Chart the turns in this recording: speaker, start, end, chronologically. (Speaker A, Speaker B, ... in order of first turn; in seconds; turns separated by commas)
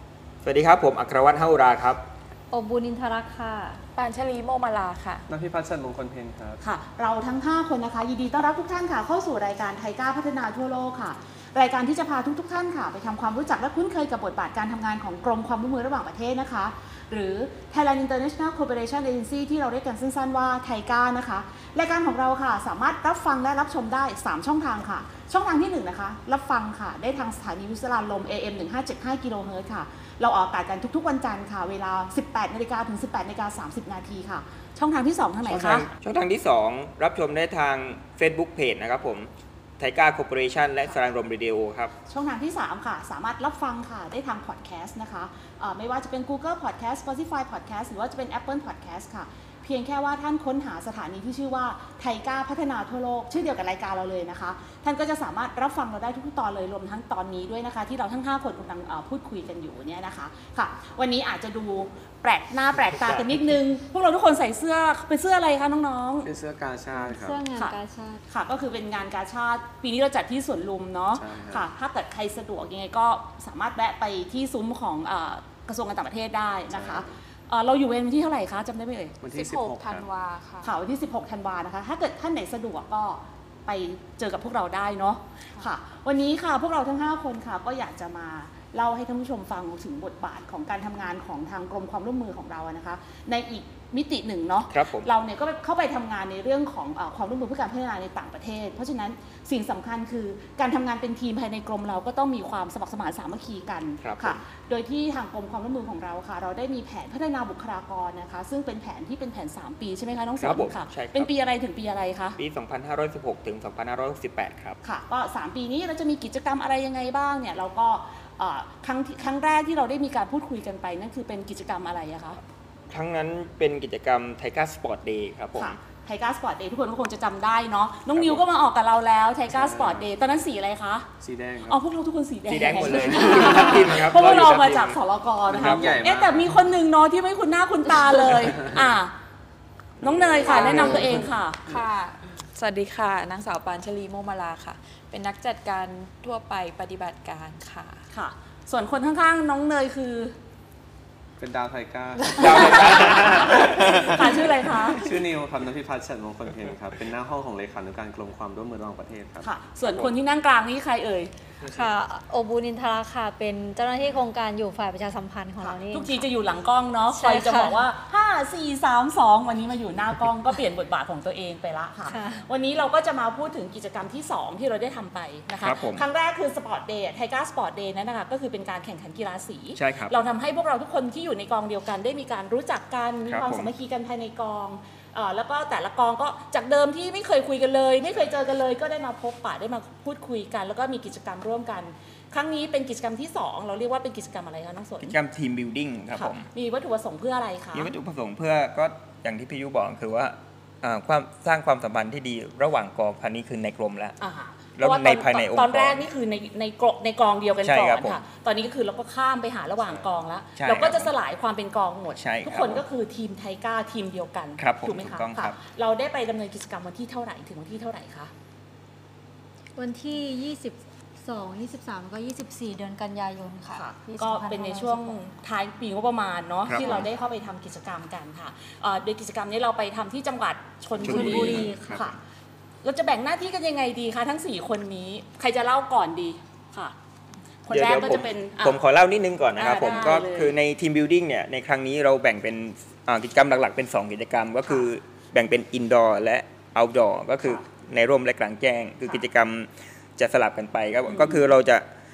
Speaker A: 0.4-2.0, Speaker B: 2.5-3.8, Speaker C: 4.0-5.2, Speaker D: 5.3-6.6, Speaker E: 6.6-35.9, Speaker A: 35.4-41.9, Speaker E: 42.1-66.3, Speaker D: 66.2-67.4, Speaker B: 67.0-68.2, Speaker E: 68.3-79.1, Speaker D: 71.1-71.7, Speaker D: 76.7-77.1, Speaker D: 79.2-80.0, Speaker C: 79.3-80.7, Speaker E: 80.6-112.4, Speaker A: 94.7-95.1, Speaker A: 104.0-104.4, Speaker A: 110.4-111.3, Speaker A: 112.4-114.8, Speaker E: 114.8-122.4, Speaker A: 122.9-125.8, Speaker E: 125.5-131.1, Speaker D: 128.1-128.4, Speaker D: 129.5-130.1, Speaker D: 131.2-131.8, Speaker E: 131.7-139.1, Speaker A: 132.5-134.9, Speaker D: 133.3-134.8, Speaker A: 135.5-135.9, Speaker D: 135.5-136.5, Speaker D: 138.3-138.8, Speaker D: 140.0-141.3, Speaker E: 140.0-141.7, Speaker A: 140.2-141.2, Speaker C: 141.7-148.0, Speaker E: 148.1-150.3, Speaker D: 151.4-159.4, Speaker A: 152.3-153.8, Speaker E: 152.9-155.1, Speaker E: 159.4-161.3, Speaker B: 161.7-166.2, Speaker E: 165.9-195.1, Speaker B: 167.1-167.8, Speaker B: 172.1-172.4, Speaker A: 175.6-176.0, Speaker A: 179.7-180.1, Speaker A: 183.3-183.7, Speaker A: 195.0-196.4, Speaker E: 196.2-197.9, Speaker A: 197.7-204.2, Speaker E: 204.2-218.3, Speaker A: 204.8-206.0, Speaker A: 207.6-208.2, Speaker A: 210.6-211.1, Speaker A: 212.2-212.8, Speaker A: 214.6-215.6, Speaker B: 219.8-225.2, Speaker E: 223.7-232.1, Speaker A: 226.7-227.1, Speaker B: 226.8-227.1, Speaker B: 231.0-232.1, Speaker A: 231.0-232.1, Speaker D: 231.2-231.6, Speaker E: 232.8-236.9, Speaker E: 237.7-238.8, Speaker A: 237.7-251.8, Speaker E: 239.6-240.5, Speaker E: 251.1-251.4